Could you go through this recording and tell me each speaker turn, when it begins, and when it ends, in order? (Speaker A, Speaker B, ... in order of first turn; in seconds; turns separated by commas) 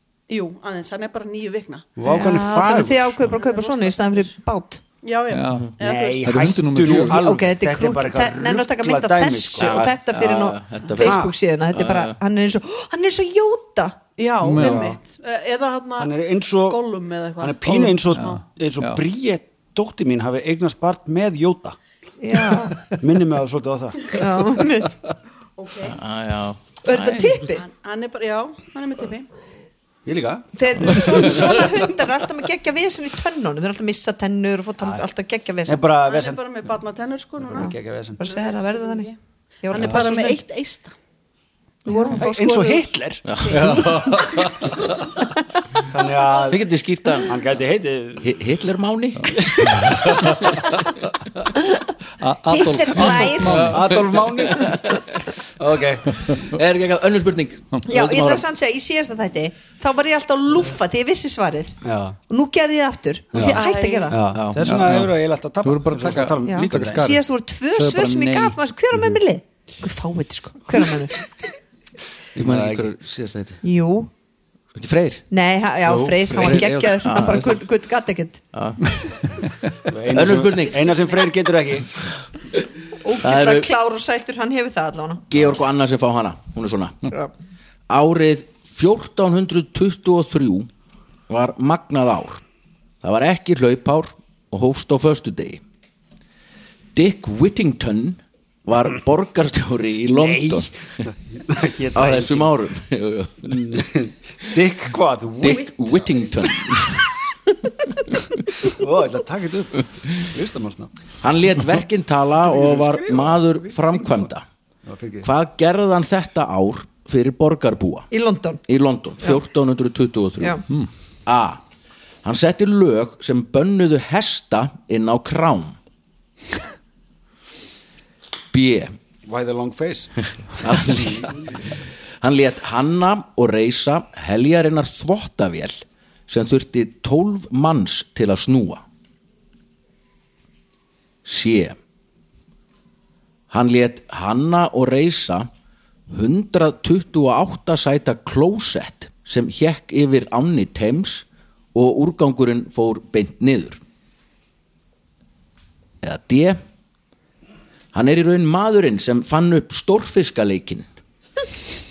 Speaker A: 0.3-2.1, Speaker B: 2.0-3.2, Speaker C: 2.1-4.8, Speaker A: 2.6-4.3, Speaker A: 5.0-6.3, Speaker D: 5.3-5.7, Speaker B: 5.8-9.9, Speaker D: 6.2-7.2, Speaker C: 7.1-14.0, Speaker E: 9.6-12.2, Speaker B: 11.0-11.3, Speaker A: 14.2-17.8, Speaker D: 14.4-14.9, Speaker B: 14.6-15.0, Speaker B: 16.0-16.9, Speaker B: 17.4-21.8, Speaker D: 17.7-19.0, Speaker C: 22.2-22.8, Speaker B: 22.9-24.1, Speaker C: 24.1-24.9, Speaker A: 25.6-26.0, Speaker E: 25.8-27.3, Speaker C: 26.8-27.6, Speaker A: 27.1-29.3, Speaker B: 30.1-31.4, Speaker C: 30.6-35.8, Speaker B: 35.7-36.5, Speaker A: 36.1-40.9, Speaker B: 37.4-38.2, Speaker C: 37.6-39.1, Speaker C: 39.6-40.4, Speaker C: 41.9-42.7, Speaker A: 41.9-42.7, Speaker B: 42.1-43.7, Speaker E: 43.3-44.1, Speaker D: 43.5-44.7, Speaker B: 45.9-46.7, Speaker E: 46.5-47.4, Speaker B: 47.2-48.4, Speaker E: 48.2-50.6, Speaker C: 51.5-51.9, Speaker D: 52.2-54.2, Speaker C: 52.5-53.9, Speaker B: 53.0-54.9, Speaker E: 54.0-55.2, Speaker B: 55.6-56.4, Speaker E: 56.4-58.5, Speaker C: 57.9-64.2, Speaker B: 61.8-62.2, Speaker B: 63.3-67.1, Speaker A: 63.4-64.3, Speaker E: 64.3-64.8, Speaker D: 64.6-68.6, Speaker C: 66.4-71.2, Speaker B: 72.3-72.9, Speaker E: 72.4-73.6, Speaker C: 73.6-74.1, Speaker E: 74.8-75.2, Speaker C: 75.3-78.4, Speaker B: 75.8-76.6, Speaker E: 76.3-77.6, Speaker E: 78.5-78.9, Speaker D: 79.4-79.8, Speaker B: 79.8-81.9, Speaker E: 80.1-81.0, Speaker C: 83.0-85.3, Speaker E: 83.2-83.7, Speaker E: 85.3-87.0, Speaker E: 87.9-90.7, Speaker E: 91.3-92.4, Speaker E: 93.0-95.6, Speaker E: 97.0-100.7, Speaker B: 100.1-102.5, Speaker E: 102.0-103.9, Speaker B: 103.4-106.9, Speaker E: 105.4-107.1, Speaker B: 108.6-110.9, Speaker E: 111.2-114.5, Speaker B: 112.4-114.3, Speaker B: 114.9-115.3, Speaker E: 115.2-118.1, Speaker C: 118.1-118.6, Speaker E: 118.7-120.7, Speaker E: 121.3-121.6, Speaker E: 122.2-125.8, Speaker E: 128.5-128.9, Speaker B: 129.3-131.5, Speaker E: 130.6-131.7, Speaker E: 132.2-138.8, Speaker E: 141.2-141.8, Speaker E: 143.5-145.5, Speaker E: 146.1-153.8, Speaker E: 156.0-156.6, Speaker E: 157.9-160.9